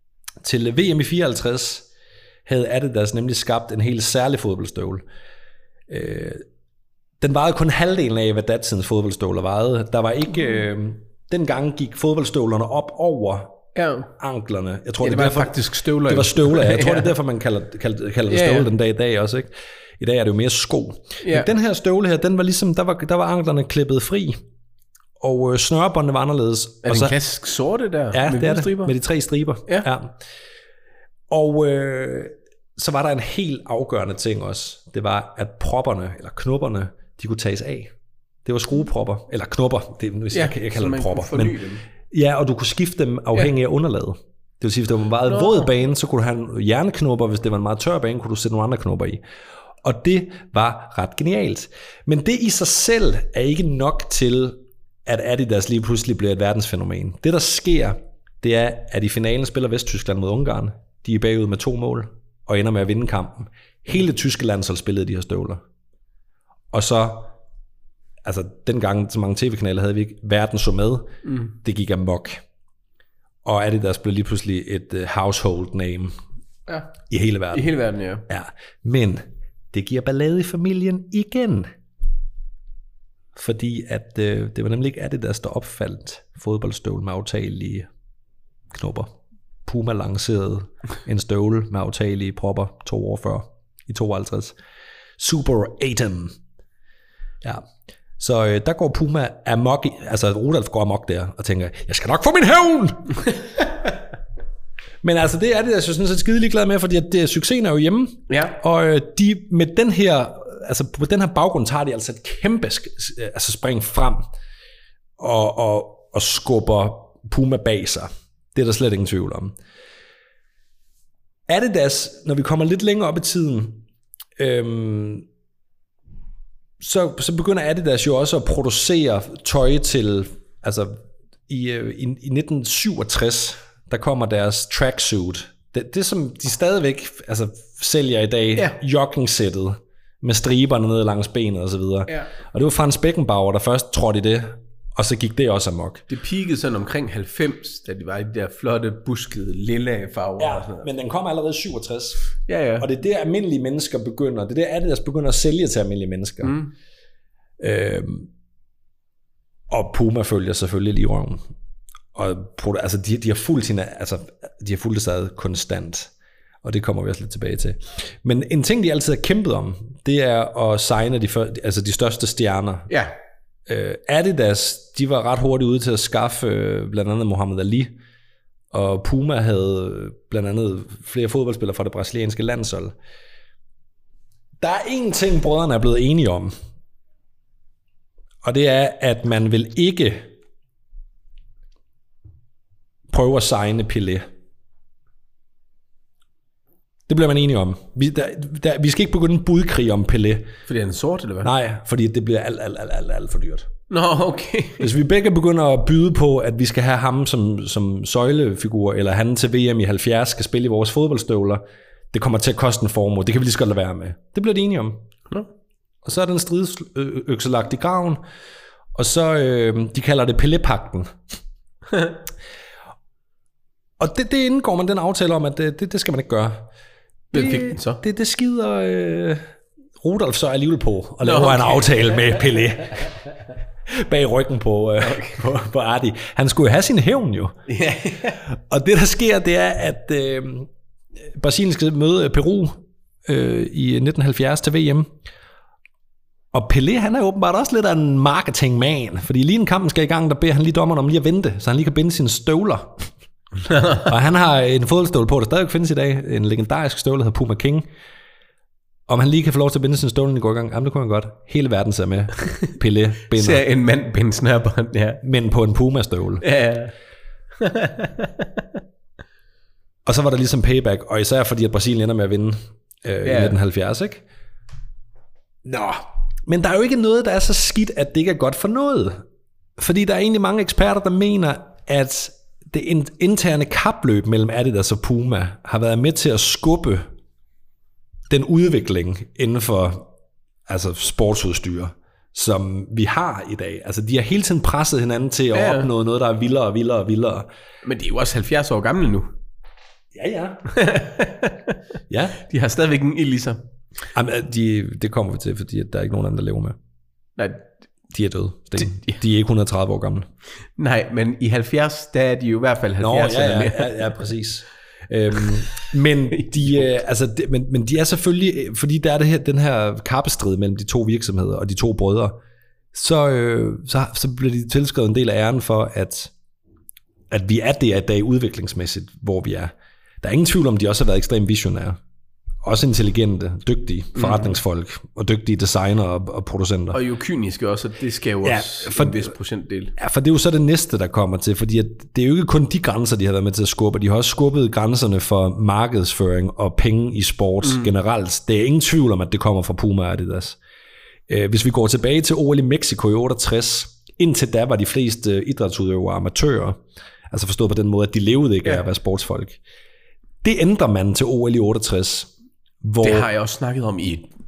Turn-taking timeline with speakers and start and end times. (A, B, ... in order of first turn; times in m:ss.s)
0:00.4-0:01.9 A
0:02.5-0:05.0 A
0:05.9-0:06.4 A
0:07.2-0:13.6 A
0:13.8-0:14.1 B
0:14.2-0:24.4 A
0:15.0-0:17.1 B
0:18.3-0:18.7 B
0:21.2-0:21.5 B
0:25.2-0:27.2 A
0:26.8-0:28.9 B
0:28.1-0:30.2 A
0:31.3-0:37.9 A
0:38.4-0:41.6 A
0:40.3-0:41.8 B
0:42.1-0:49.2 A
0:45.3-0:45.7 B
0:49.8-1:05.6 A
1:06.7-1:07.3 A
1:08.2-1:12.4 A
1:11.2-1:11.5 B
1:13.4-1:16.1 A
1:16.7-1:16.9 B
1:17.1-1:17.7 A
1:17.5-1:18.3 B
1:18.3-1:21.7 A
1:23.4-1:27.9 A
1:28.7-1:29.1 A
1:29.6-1:34.6 A
1:35.2-1:36.4 A
1:38.2-1:43.3 A
1:45.0-1:54.3 A
1:48.3-1:48.6 B
1:55.2-1:59.6 A
2:01.5-2:03.8 A
2:04.4-2:05.3 A
2:06.8-2:11.0 A
2:11.5-2:26.0 A
2:26.1-2:30.9 B
2:30.4-2:32.2 A
2:32.5-2:32.9 B
2:32.8-2:36.6 A
2:36.4-2:36.7 B
2:37.6-2:38.3 A
2:39.7-2:41.4 A
2:42.2-2:46.1 A
2:46.6-2:52.9 A
2:52.9-2:53.2 B
2:53.7-2:58.0 A
2:58.7-3:03.0 A
3:04.6-3:06.5 A
3:08.4-3:10.3 A
3:13.1-3:14.3 A
3:17.1-3:20.5 A
3:20.7-3:21.5 B
3:21.4-3:23.7 A
3:23.9-3:24.9 B
3:24.8-3:35.0 A
3:36.0-3:38.2 A
3:39.0-3:41.2 A
3:44.0-3:46.7 A
3:47.3-3:48.0 B
3:47.3-3:49.4 A
3:50.0-3:53.3 A
3:51.2-3:52.1 B
3:53.9-3:57.6 A
3:55.0-3:55.6 B
3:57.7-3:58.4 B
3:58.4-4:05.1 A
4:06.5-4:13.1 A
4:13.6-4:14.1 B
4:14.0-4:17.9 A
4:19.1-4:23.6 A
4:23.3-4:25.2 B
4:25.2-4:26.4 A
4:26.4-4:26.9 B
4:27.6-4:28.8 B
4:30.0-4:34.2 A
4:33.2-4:33.6 B
4:35.6-4:39.2 A
4:39.8-4:47.1 A
4:48.3-4:50.1 A
4:50.7-4:57.5 A
4:55.5-4:55.9 B
4:57.8-4:59.3 B
5:00.1-5:00.6 A
5:00.7-5:01.8 B
5:02.1-5:02.4 A
5:02.4-5:03.6 B
5:04.1-5:06.8 A
5:07.4-5:07.6 B
5:08.1-5:10.3 A
5:08.8-5:09.2 B
5:10.8-5:14.1 B
5:13.0-5:22.4 A
5:16.4-5:16.9 B
5:22.9-5:26.3 A
5:27.3-5:32.0 A
5:32.6-5:37.0 A
5:34.2-5:34.6 B
5:36.9-5:39.9 B
5:38.4-5:39.4 A
5:40.0-5:50.6 A
5:47.6-5:47.9 B
5:51.3-5:59.6 A
6:00.4-6:02.3 A
6:02.8-6:03.3 A
6:03.0-6:04.3 B